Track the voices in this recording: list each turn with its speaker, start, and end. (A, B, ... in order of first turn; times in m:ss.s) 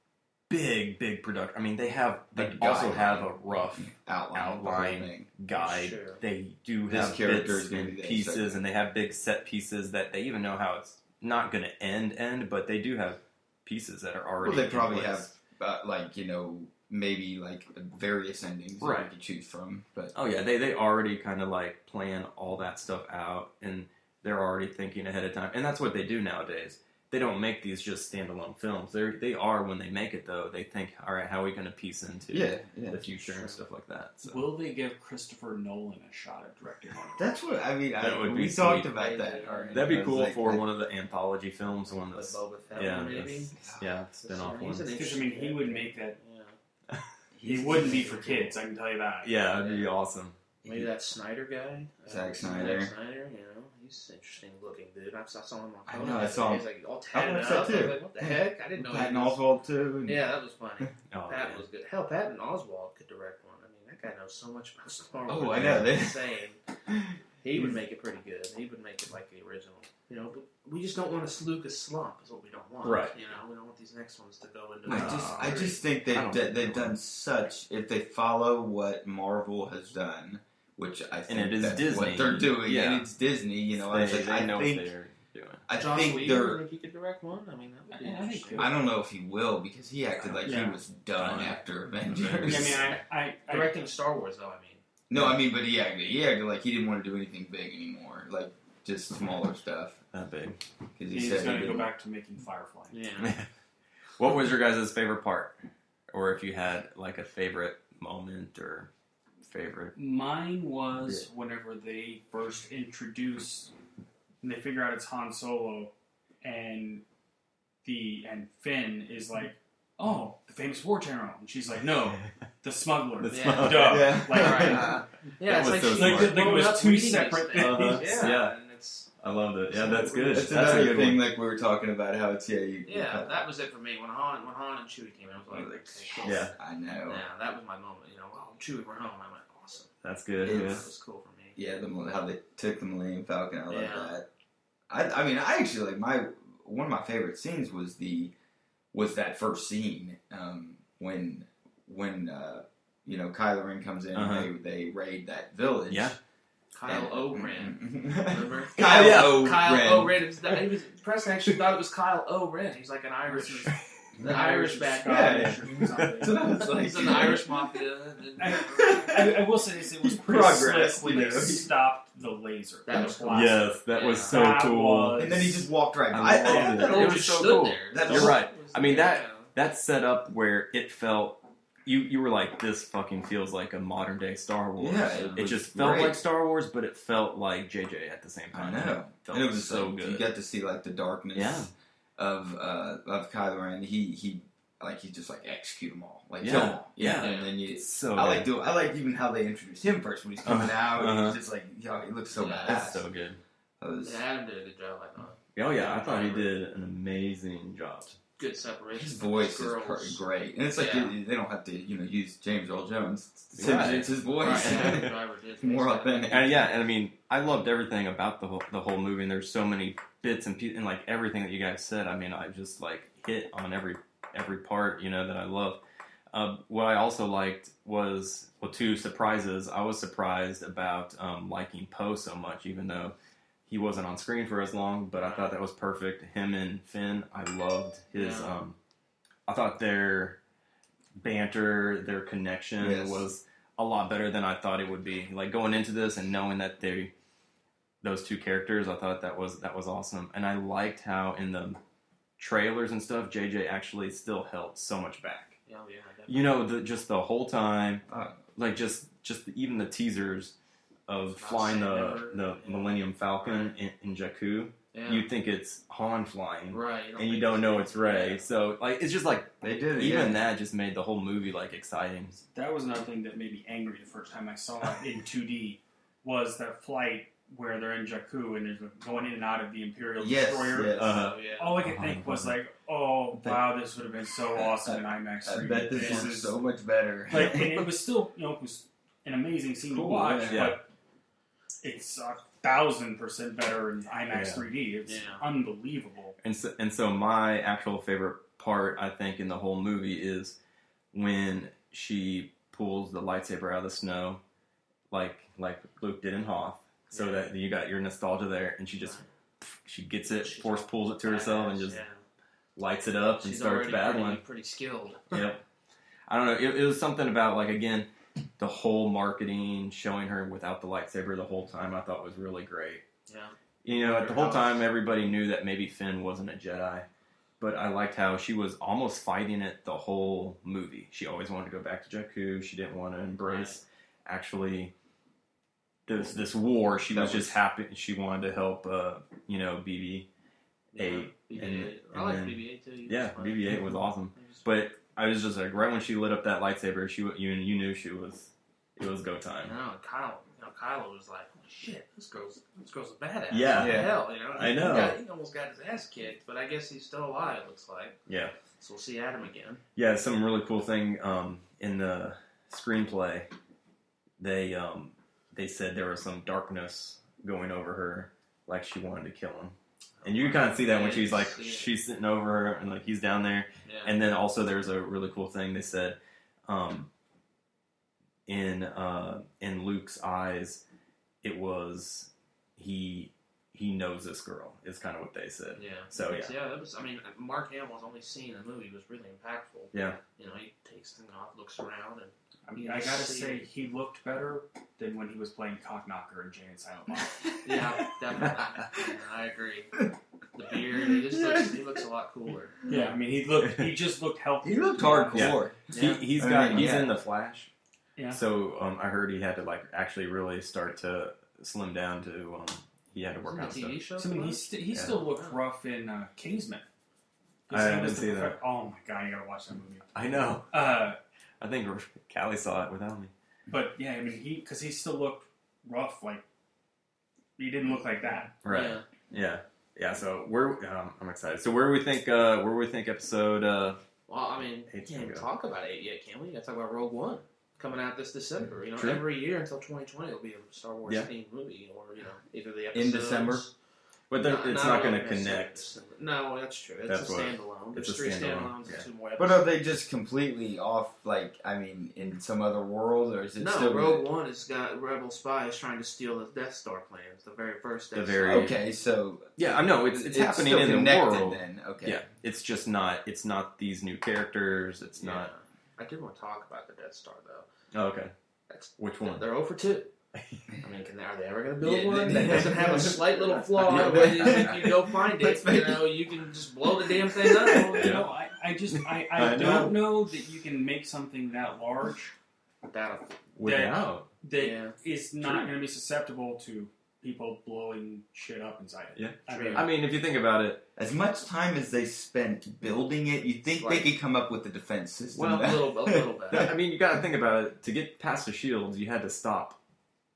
0:00.5-0:15.3 A
0:02.4-0:05.3 B
0:05.5-0:06.2 C
0:06.9-0:08.6 B
0:14.4-0:20.1 B
0:18.8-0:19.1 A
0:20.1-0:34.5 A
0:32.3-0:33.0 B
0:33.2-0:33.6 C
0:34.2-0:37.3 D
0:37.2-0:40.6 B
0:38.0-0:38.9 A
0:38.9-0:40.0 C
0:39.7-0:44.9 A
0:41.9-0:43.6 C
0:44.2-0:46.6 C
0:44.9-0:46.2 D
0:47.3-0:48.5 B
0:47.4-0:49.4 D
0:47.8-0:48.4 C
0:49.2-0:50.4 A
0:49.5-0:49.9 C
0:50.6-0:50.9 B
0:50.6-0:59.4 C
0:52.1-0:52.9 B
0:55.8-1:00.2 B
1:00.0-1:06.6 C
1:01.1-1:01.6 A
1:05.3-1:06.2 B
1:05.5-1:05.9 A
1:06.9-1:07.8 B
1:07.4-1:15.8 C
1:12.8-1:13.1 A
1:14.8-1:24.9 B
1:14.9-1:17.0 A
1:21.3-1:23.1 A
1:23.8-1:25.6 A
1:25.7-1:26.6 B
1:25.7-1:28.7 C
1:27.9-1:28.8 D
1:28.6-1:33.0 B
1:30.4-1:30.8 D
1:31.1-1:31.6 A
1:32.2-1:32.6 A
1:32.4-1:33.7 D
1:33.5-1:34.8 C
1:35.1-1:40.0 B
1:40.1-1:40.6 A
1:41.0-1:41.9 B
1:41.1-1:43.0 D
1:42.9-1:43.3 C
1:43.2-1:43.5 A
1:44.2-1:45.6 A
1:46.1-1:48.9 A
1:49.4-1:49.9 A
1:49.9-1:53.7 D
1:54.4-1:57.0 D
1:57.8-2:05.0 D
2:03.2-2:04.7 A
2:03.3-2:09.1 C
2:03.8-2:05.0 B
2:05.4-2:06.5 A
2:05.9-2:08.4 D
2:07.5-2:08.6 A
2:09.2-2:11.2 A
2:09.7-2:10.7 C
2:09.9-2:10.4 D
2:10.3-2:13.4 B
2:12.8-2:16.5 C
2:15.5-2:17.2 B
2:16.2-2:16.5 A
2:17.0-2:19.9 C
2:20.0-2:20.9 A
2:20.4-2:20.9 B
2:20.4-2:21.6 C
2:21.6-2:24.2 B
2:23.7-2:24.2 C
2:24.9-2:28.3 B
2:28.9-2:36.1 B
2:34.1-2:34.5 A
2:35.9-2:36.2 A
2:36.7-2:45.6 C
2:36.8-2:40.2 B
2:38.8-2:39.6 A
2:43.3-2:46.4 D
2:45.0-2:47.6 B
2:46.6-2:49.2 C
2:48.4-2:55.7 D
2:48.7-2:49.4 B
2:50.0-2:51.7 B
2:52.8-2:54.5 C
2:53.3-2:55.4 A
2:55.2-2:58.4 B
2:56.1-3:10.2 A
2:56.4-2:59.5 C
3:04.8-3:06.2 B
3:05.0-3:05.4 C
3:08.5-3:23.0 B
3:11.3-3:11.7 A
3:16.4-3:18.5 A
3:17.0-3:17.5 C
3:20.4-3:21.4 A
3:22.3-3:22.8 C
3:22.6-3:23.4 A
3:23.8-3:24.2 B
3:24.0-3:26.5 C
3:25.5-3:28.2 A
3:28.4-3:30.2 C
3:28.9-3:36.6 B
3:30.7-3:31.2 C
3:33.5-3:35.1 A
3:33.6-3:36.6 C
3:36.3-3:45.8 A
3:46.3-3:53.1 A
3:53.7-3:58.8 A
3:55.1-3:55.5 C
3:58.1-3:58.6 C
3:59.5-4:00.4 A
4:01.2-4:07.1 A
4:02.8-4:03.2 B
4:08.0-4:11.8 A
4:12.4-4:15.6 A
4:15.7-4:16.6 C
4:16.3-4:18.0 A
4:18.1-4:18.4 B
4:18.5-4:20.5 A
4:21.1-4:32.4 A
4:21.3-4:23.8 C
4:24.9-4:25.3 C
4:26.7-4:28.5 C
4:29.6-4:30.5 B
4:32.5-4:46.6 D
4:40.2-4:41.2 B
4:40.9-4:42.6 A
4:41.1-4:41.8 C
4:43.3-4:43.7 B
4:44.5-4:47.9 B
4:46.0-4:46.2 C
4:47.3-4:50.9 D
4:49.9-4:50.7 B
4:50.4-4:50.8 A
4:51.8-4:56.3 D
4:54.3-4:54.7 A
4:55.0-4:55.4 C
4:56.4-5:00.6 A
5:01.1-5:04.4 A
5:05.1-5:09.2 A
5:07.1-5:07.5 C
5:09.0-5:09.3 C
5:09.8-5:12.0 A
5:10.4-5:12.2 C
5:12.8-5:14.4 A
5:13.4-5:15.4 C
5:15.3-5:15.6 A
5:16.3-5:23.0 A
5:23.3-5:24.8 C
5:23.8-5:27.0 A
5:27.6-5:34.9 A
5:33.4-5:33.8 C
5:36.1-5:40.3 A
5:37.1-5:37.6 B
5:40.9-5:43.6 C
5:41.0-5:49.8 A
5:44.3-5:44.6 C
5:49.6-5:58.2 C
5:53.5-5:55.2 A
5:53.8-5:54.2 B
5:58.3-5:58.5 A
5:58.8-5:59.8 C
6:00.0-6:03.5 A
6:04.4-6:17.1 A
6:10.2-6:11.9 C
6:13.8-6:14.1 C
6:18.5-6:20.8 A
6:21.4-6:26.5 A
6:25.8-6:33.6 C
6:29.9-6:30.2 A
6:32.7-6:37.5 D
6:37.6-6:40.0 C
6:40.5-6:42.8 C
6:41.3-6:41.6 B
6:42.9-6:45.6 D
6:43.6-6:43.9 A
6:44.6-6:47.2 B
6:45.3-6:47.7 A
6:45.9-6:46.2 C
6:48.3-6:54.0 A
6:53.4-6:55.6 C
6:54.2-6:56.8 D
6:57.7-7:01.2 D
6:57.7-6:58.6 A
7:00.1-7:00.7 A
7:01.6-7:03.3 A
7:03.7-7:06.4 D
7:07.6-7:08.5 D
7:08.6-7:14.0 A
7:08.6-7:09.0 C
7:14.3-7:23.7 C
7:14.9-7:15.5 A
7:19.0-7:19.2 A
7:22.9-7:23.6 B
7:24.3-7:25.8 A
7:24.4-7:29.7 C
7:27.1-7:29.0 A
7:29.4-7:34.2 B
7:33.6-7:38.8 C
7:38.1-7:38.8 A
7:38.4-7:42.2 B
7:39.6-7:45.5 A
7:45.2-7:47.7 C
7:47.9-7:48.3 A
7:48.7-7:50.1 C
7:49.0-7:49.4 A
7:50.3-7:50.6 A
7:50.8-7:58.2 C
7:51.8-7:56.3 B
7:53.8-7:54.9 A
7:56.9-7:57.8 B
7:57.9-8:02.3 D
7:57.9-7:58.3 A
7:58.9-8:00.1 A
8:02.9-8:03.4 C
8:03.6-8:04.3 A
8:03.6-8:09.9 D
8:04.5-8:04.9 C
8:09.1-8:10.8 A
8:09.5-8:09.9 C
8:11.0-8:16.7 B
8:13.7-8:14.1 C
8:15.3-8:15.8 A
8:15.5-8:16.7 C
8:16.5-8:19.8 A